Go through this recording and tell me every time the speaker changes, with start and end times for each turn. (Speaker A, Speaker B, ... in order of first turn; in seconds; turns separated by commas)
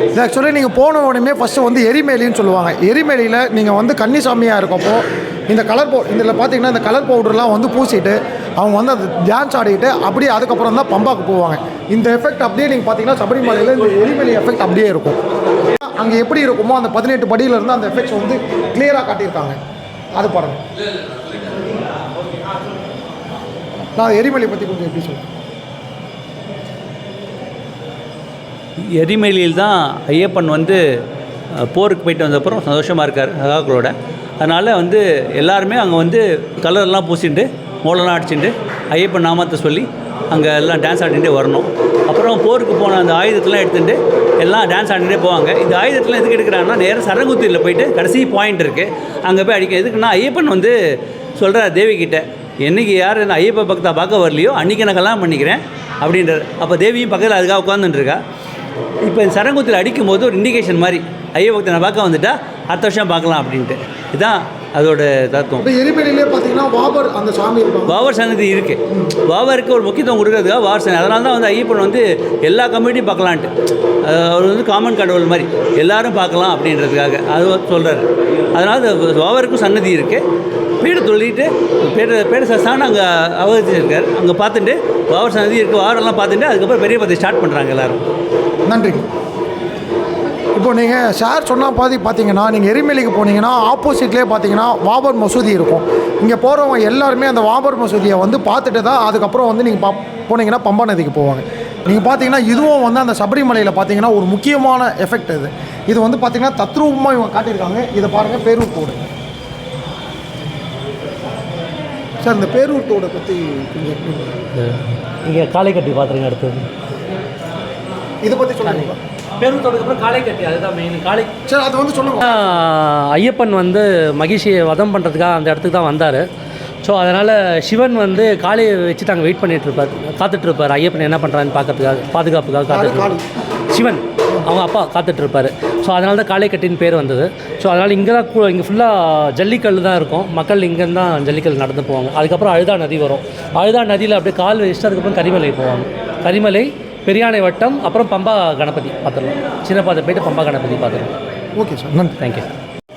Speaker A: 0.1-15.2, Speaker A: 15.8-19.6, Speaker A: 20.1-20.6, Speaker A: 24.0-25.2, Speaker B: 28.8-30.8, Speaker B: 31.5-50.8, Speaker B: 51.4-58.2, Speaker B: 59.0-65.7, Speaker A: 65.6-68.0, Speaker B: 67.9-73.5, Speaker B: 74.0-80.2, Speaker B: 80.8-88.0, Speaker A: 88.7-89.1, Speaker A: 90.6-109.0, Speaker A: 112.2-114.3, Speaker C: 114.5-116.7, Speaker A: 118.2-119.0, Speaker C: 119.4-121.3, Speaker A: 121.5-122.3, Speaker C: 122.2-126.3, Speaker C: 126.8-133.2, Speaker A: 132.7-133.2, Speaker C: 133.7-151.1, Speaker A: 151.6-152.2